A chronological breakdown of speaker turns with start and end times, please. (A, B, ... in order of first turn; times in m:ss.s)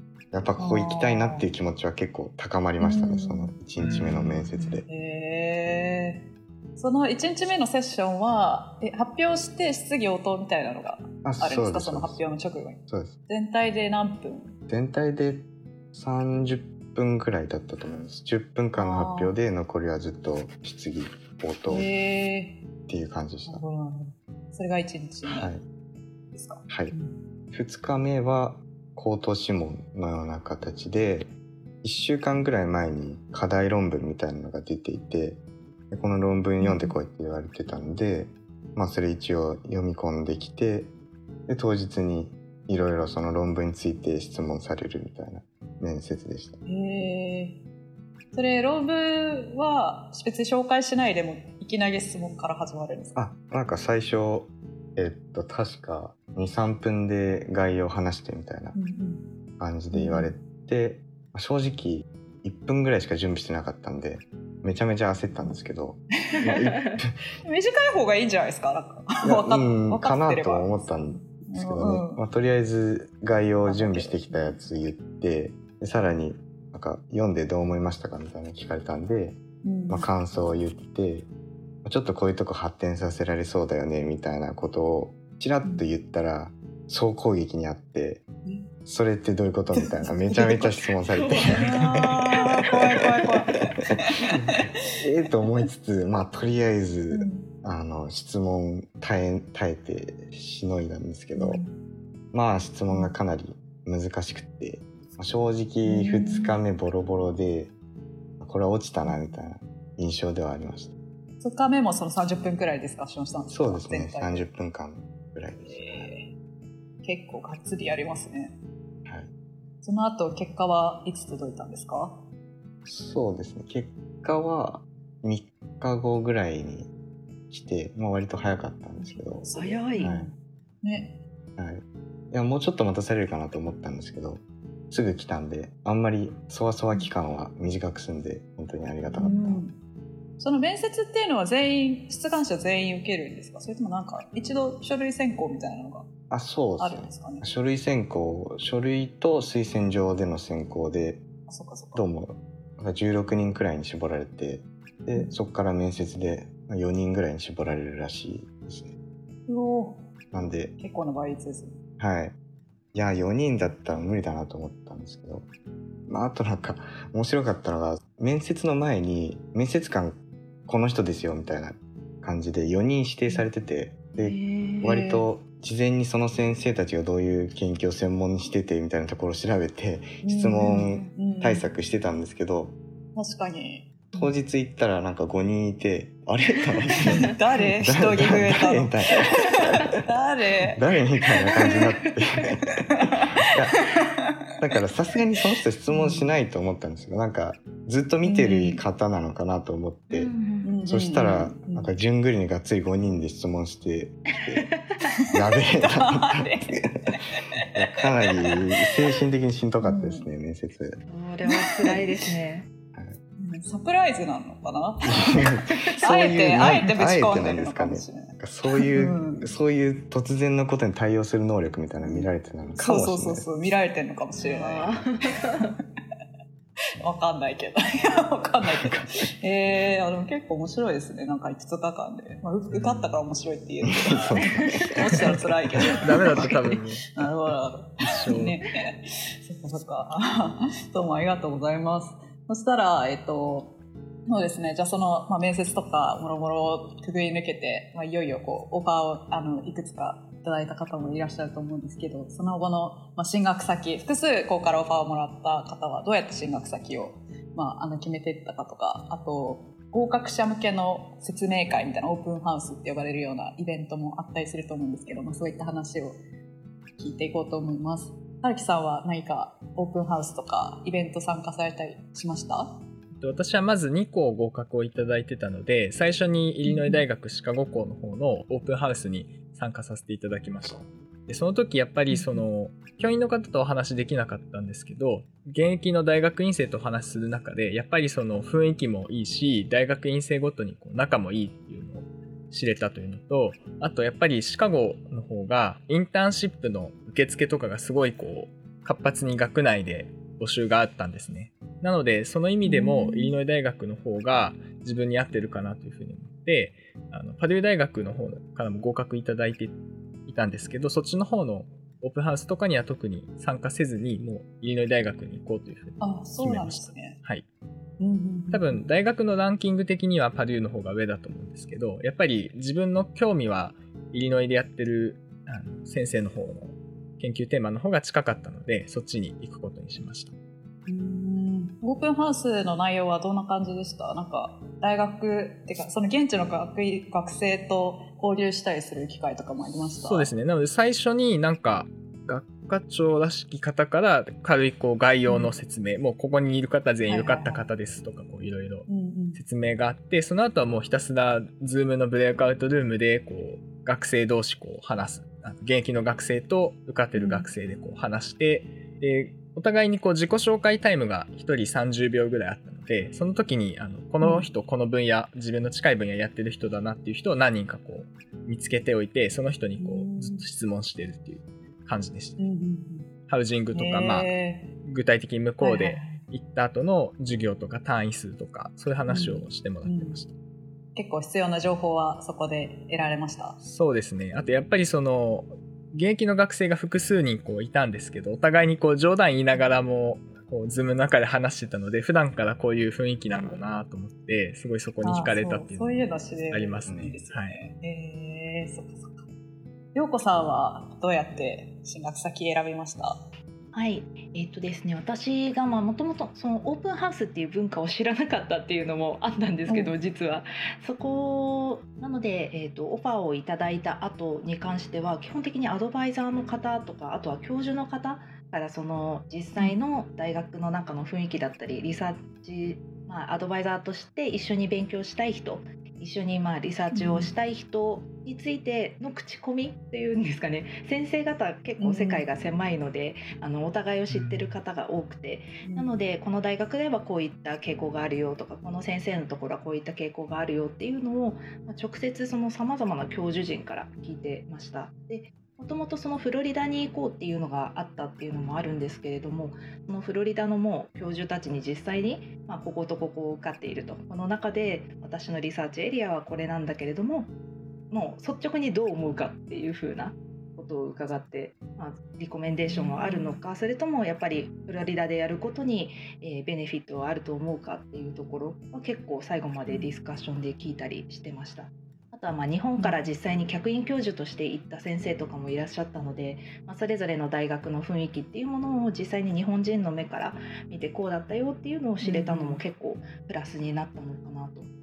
0:00.3-0:04.8 A
0:00.6-0:01.5 B
0:02.8-0:14.6 B
0:03.8-0:04.2 C
0:11.2-0:12.2 A
0:12.9-0:13.2 A
0:14.7-0:21.9 A
0:18.8-0:19.3 B
0:21.7-0:22.6 B
0:22.9-0:23.6 A
0:23.5-0:25.5 B
0:25.2-0:25.6 A
0:26.3-0:27.2 B
0:26.7-0:26.9 A
0:27.5-0:31.3 A
0:31.8-0:40.9 A
0:36.6-0:37.0 B
0:41.5-0:46.6 A
0:46.7-0:47.6 B
0:48.3-0:53.2 B
0:53.2-0:58.8 A
0:58.7-0:59.3 B
0:59.6-1:07.2 A
0:59.9-1:00.3 B
1:07.4-1:12.3 B
1:09.2-1:21.3 A
1:13.3-1:14.6 B
1:19.6-1:20.1 B
1:21.8-1:28.2 A
1:25.6-1:25.9 B
1:28.4-1:28.7 B
1:28.8-1:32.1 A
1:29.7-1:30.7 B
1:31.1-1:31.8 D
1:31.5-1:34.7 B
1:34.3-1:41.6 A
1:37.1-1:37.5 B
1:41.3-1:41.7 B
1:42.3-1:47.7 A
1:42.9-1:43.2 B
1:45.8-1:46.6 B
1:48.4-1:50.9 A
1:49.0-1:49.4 B
1:51.4-1:54.4 B
1:53.5-1:56.1 A
1:55.6-1:56.3 B
1:57.0-1:58.6 B
1:59.8-2:02.3 B
2:02.8-2:06.9 A
2:07.5-2:10.3 A
2:09.0-2:11.2 B
2:09.5-2:10.1 D
2:11.6-2:19.6 A
2:19.1-2:19.8 B
2:20.4-2:26.1 B
2:26.3-2:31.2 A
2:26.8-2:27.5 B
2:31.5-2:32.0 B
2:31.9-2:38.9 A
2:39.5-2:40.1 B
2:40.3-2:40.7 A
2:40.8-2:41.8 B
2:42.0-2:42.3 A
2:42.9-2:45.5 A
2:46.1-3:02.8 A
2:54.2-2:54.8 D
2:54.8-2:55.2 B
3:00.2-3:01.7 B
3:00.8-3:01.2 D
3:03.1-3:04.3 B
3:04.1-3:09.8 A
3:07.0-3:10.8 B
3:10.7-3:13.8 A
3:12.8-3:14.1 B
3:14.6-3:20.3 A
3:15.9-3:16.3 B
3:18.2-3:18.8 B
3:20.1-3:20.8 D
3:20.6-3:21.9 B
3:20.8-3:24.6 A
3:24.6-3:25.0 D
3:25.3-3:27.1 A
3:25.7-3:27.6 B
3:27.7-3:31.0 A
3:28.2-3:28.5 B
3:29.8-3:30.3 B
3:31.1-3:32.7 D
3:31.5-3:32.0 B
3:33.4-3:39.5 B
3:35.1-3:43.7 A
3:42.0-3:45.0 B
3:44.4-3:45.7 D
3:47.0-4:26.2 B
3:48.8-3:49.1 A
3:52.7-3:53.2 C
3:54.1-3:56.0 A
3:54.5-3:54.9 D
3:56.0-3:57.0 C
3:58.0-3:58.6 C
4:27.0-4:32.8 B
4:33.1-5:17.4 C
4:36.6-4:37.0 B
4:42.1-4:42.5 B
5:02.6-5:03.4 B
5:16.0-5:17.2 B
5:18.0-5:18.9 B
5:18.5-5:30.3 C
5:30.8-5:40.3 B
5:40.0-6:12.4 C
5:45.2-5:45.5 B
5:47.0-5:47.6 B
5:48.9-5:49.4 B
5:57.1-5:57.5 B
6:04.2-6:04.5 B
6:09.8-6:10.5 B
6:12.4-6:13.1 B
6:13.3-6:20.3 C
6:13.7-6:14.7 B
6:15.6-6:16.2 B
6:19.1-6:20.2 B
6:20.9-6:23.6 B
6:23.6-6:37.6 C
6:33.3-6:33.6 B
6:35.0-6:39.3 B
6:36.8-6:37.1 A
6:39.9-6:43.2 B
6:43.7-7:37.3 D
6:49.7-6:49.9 B
7:06.9-7:07.3 B
7:11.8-7:12.3 B
7:14.1-7:14.5 C
7:15.6-7:16.0 B
7:37.9-8:04.7 D
7:42.5-7:43.4 B
7:49.7-7:49.9 B
8:02.0-8:02.6 B